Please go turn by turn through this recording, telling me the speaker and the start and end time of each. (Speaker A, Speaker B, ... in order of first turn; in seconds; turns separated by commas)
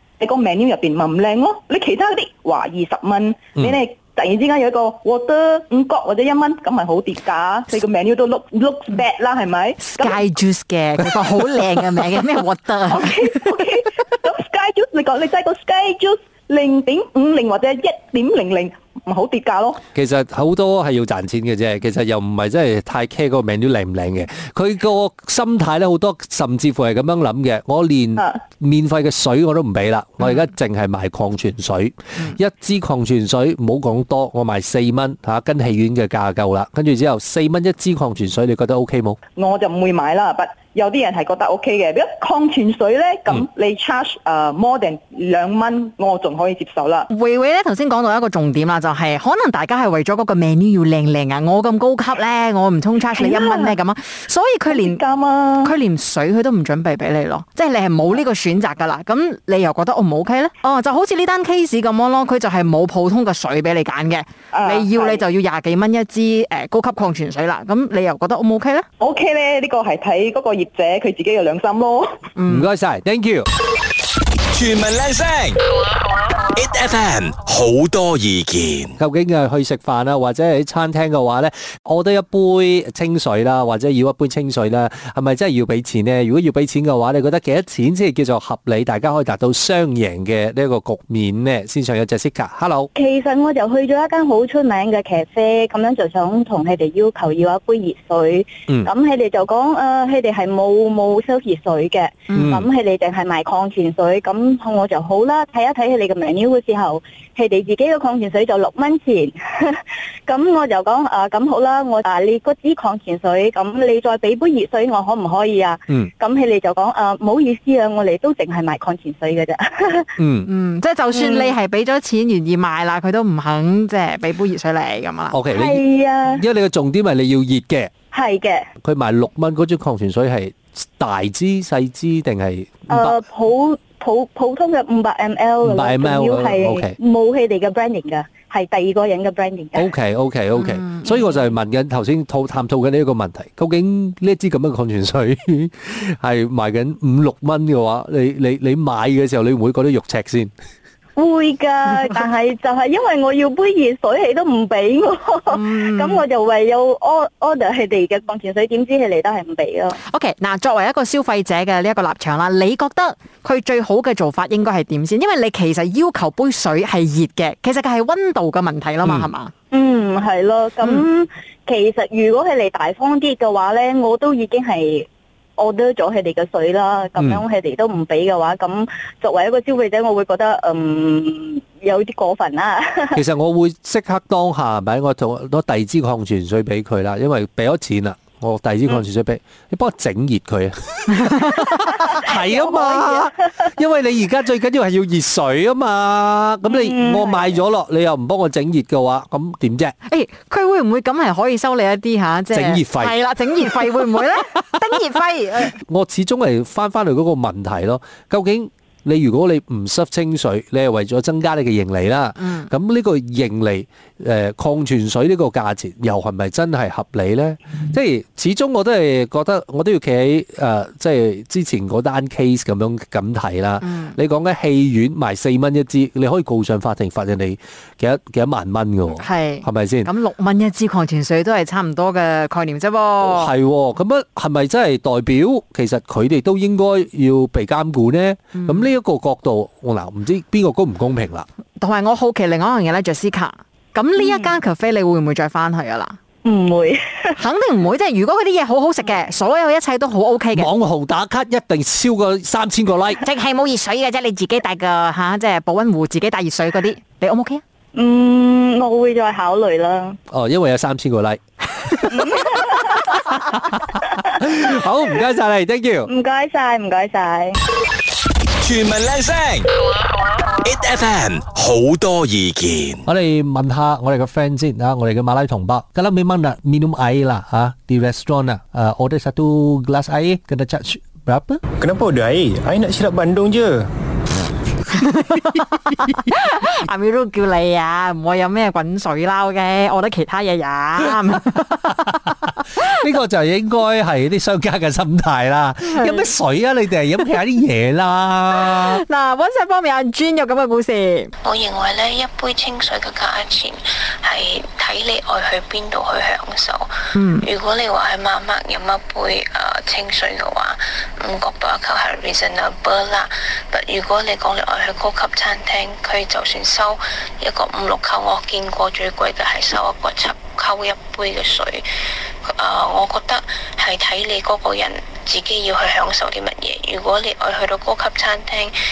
Speaker A: 0.2-10.2, Speaker B: 9.8-13.4, Speaker A: 12.8-19.8, Speaker C: 19.9-39.2, Speaker A: 39.4-47.1, Speaker B: 47.1-55.0, Speaker A: 53.1-53.8, Speaker A: 54.7-55.7, Speaker B: 55.6-68.8, Speaker A: 64.5-65.2, Speaker A: 69.0-72.2, Speaker B: 72.3-72.7, Speaker C: 72.5-73.5, Speaker D: 74.5-75.6, Speaker D: 76.5-78.9, Speaker C: 79.0-92.9, Speaker E: 92.9-120.1, Speaker C: 102.3-102.7, Speaker C: 120.2-120.5, Speaker B: 120.5-125.3, Speaker E: 121.1-121.5, Speaker C: 125.3-127.9, Speaker E: 125.5-126.4, Speaker E: 128.1-128.6, Speaker C: 128.8-133.2, Speaker E: 132.9-139.9, Speaker C: 135.6-137.0, Speaker C: 139.8-150.5, Speaker B: 140.6-141.2, Speaker E: 151.2-160.0, Speaker B: 155.5-156.2, Speaker B: 160.0-169.5, Speaker C: 169.0-169.3, Speaker E: 169.7-183.2, Speaker C: 177.2-177.4, Speaker C: 183.1-199.9, Speaker B: 191.2-191.6, Speaker E: 192.0-193.3, Speaker E: 196.7-197.5, Speaker B: 200.1-205.8, Speaker C: 202.5-203.2, Speaker C: 205.8-230.1, Speaker B: 212.4-212.7, Speaker B: 223.8-224.2, Speaker B: 229.2-233.5, Speaker C: 233.2-241.4, Speaker B: 238.6-238.8, Speaker B: 241.8-246.2, Speaker E: 244.2-244.6, Speaker E: 246.4-247.4, Speaker B: 247.4-250.7, Speaker C: 250.5-253.2, Speaker B: 253.2-257.6, Speaker E: 257.9-260.2, Speaker C: 260.3-261.4, Speaker E: 262.1-263.2, Speaker C: 264.3-266.1, Speaker E: 266.1-267.6, Speaker D: 268.6-269.7, Speaker D: 270.6-273.0, Speaker C: 273.1-281.6, Speaker F: 281.8-283.8, Speaker B: 284.9-292.3, Speaker C: 292.8-299.0, Speaker B: 295.8-296.3, Speaker B: 298.6-301.3, Speaker G: 301.4-306.9, Speaker B: 307.1-307.4, Speaker G: 307.4-321.8, Speaker G: 322.4-328.7